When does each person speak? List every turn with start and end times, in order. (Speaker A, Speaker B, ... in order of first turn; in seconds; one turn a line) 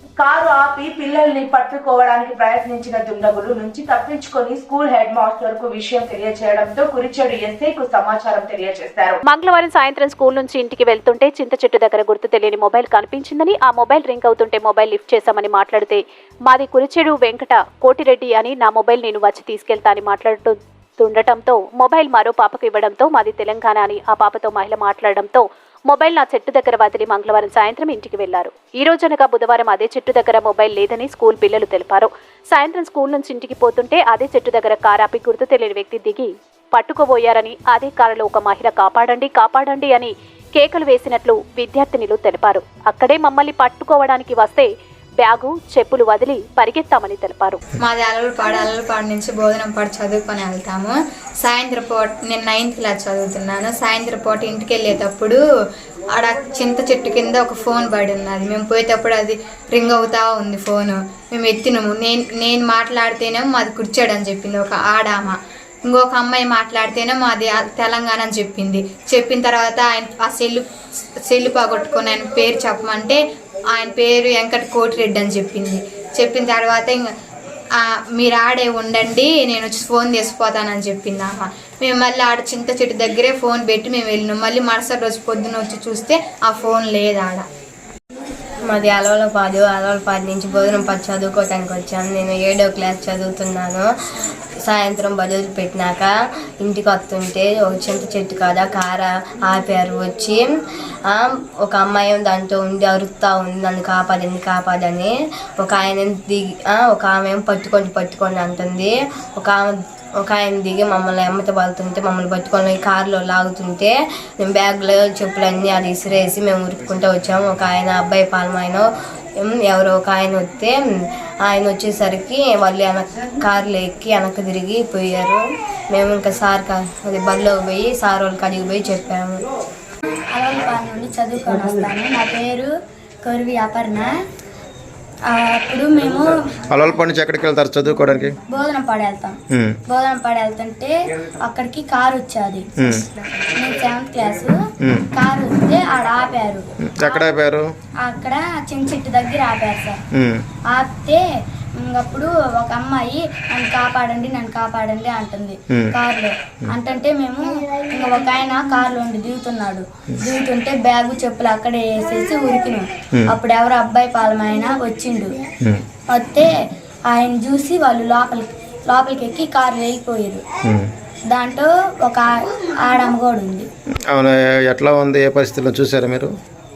Speaker A: 0.2-9.2
Speaker B: 9.3-44.7
Speaker B: 45.2-47.6
Speaker C: 47.8-55.4
Speaker C: 56.1-65.4
Speaker C: 65.9-70.7
Speaker C: 71.2-73.2
Speaker C: 73.7-77.1
Speaker C: 77.8-87.4
Speaker D: 88.7-93.9
Speaker D: 94.6-100.4
Speaker D: 101.1-118.8
Speaker D: 119.4-120.8
Speaker D: 121.4-129.4
Speaker E: 130.3-132.7
Speaker E: 133.2-134.1
Speaker E: 135.3-136.3
Speaker F: 136.7-138.3
Speaker E: 138.5-139.4
Speaker E: 139.9-140.9
Speaker E: 141.4-142.7
Speaker E: 143.6-144.5
Speaker E: 145.1-147.2
Speaker F: 146.9-147.7
Speaker E: 148.0-150.0
Speaker F: 150.1-150.4
Speaker E: 150.7-151.2
Speaker E: 151.8-165.3
Speaker E: 166.1-166.5
Speaker E: 167.1-170.4
Speaker E: 171.3-173.7
Speaker F: 174.1-176.3